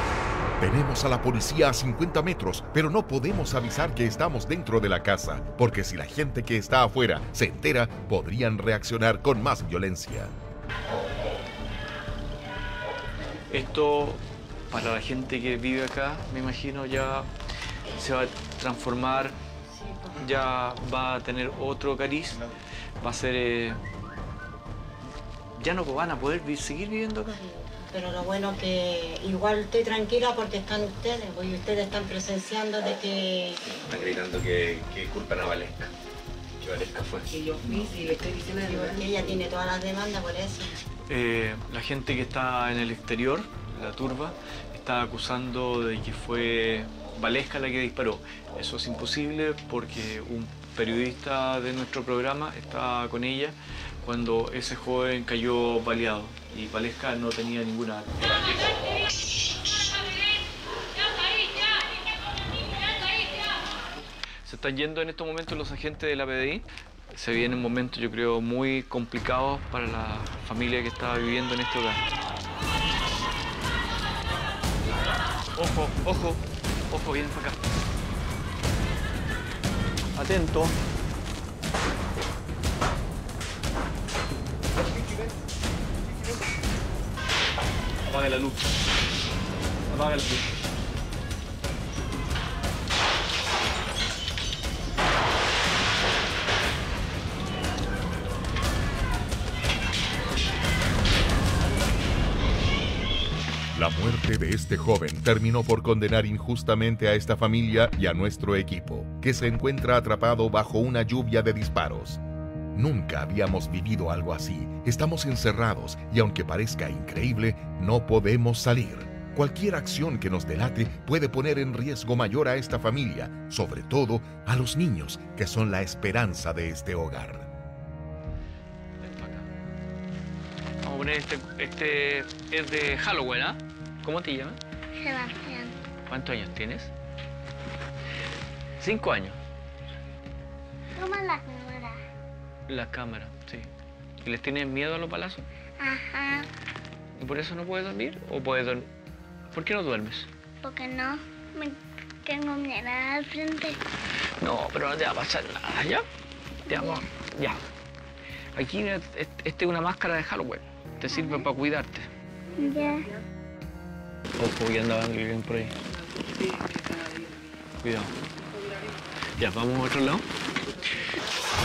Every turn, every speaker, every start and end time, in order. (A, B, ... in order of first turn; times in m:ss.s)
0:00.6-0:10.3 A
0:13.5-0:17.3 B
0:18.0-0:19.4 B
0:19.8-0:20.1 C
0:20.2-0:22.4 B
0:23.0-0:23.8 B
0:25.6-0:27.4 B
0:27.9-0:33.6 C
0:33.8-0:35.9 D
0:36.6-0:37.3 D
0:37.3-0:39.4 E
0:38.6-0:40.8 C
0:41.1-0:58.2 B
1:04.4-1:12.0 B
1:15.6-1:16.4 B
1:16.9-1:17.6 B
1:20.2-1:20.7 B
1:28.1-1:28.5 B
1:29.9-1:30.4 B
1:43.7-1:52.2 A
1:52.8-2:07.5 A
2:09.0-2:09.4 B
2:10.8-2:14.6 B
2:15.0-2:15.8 F
2:16.1-2:16.9 B
2:18.8-2:19.4 B
2:21.0-2:22.0 F
2:22.7-2:23.7 B
2:24.2-2:25.4 B
2:25.8-2:26.5 F
2:27.2-2:28.9 B
2:29.5-2:30.3 B
2:30.6-2:33.8 F
2:34.4-2:36.0 B
2:36.7-2:37.6 B
2:36.7-2:37.0 F
2:38.6-2:42.1 B
2:41.1-2:41.5 F
2:42.6-2:43.1 F
2:44.4-2:45.7 B
2:46.2-2:47.4 E
2:47.8-2:48.1 B
2:49.4-2:50.2 B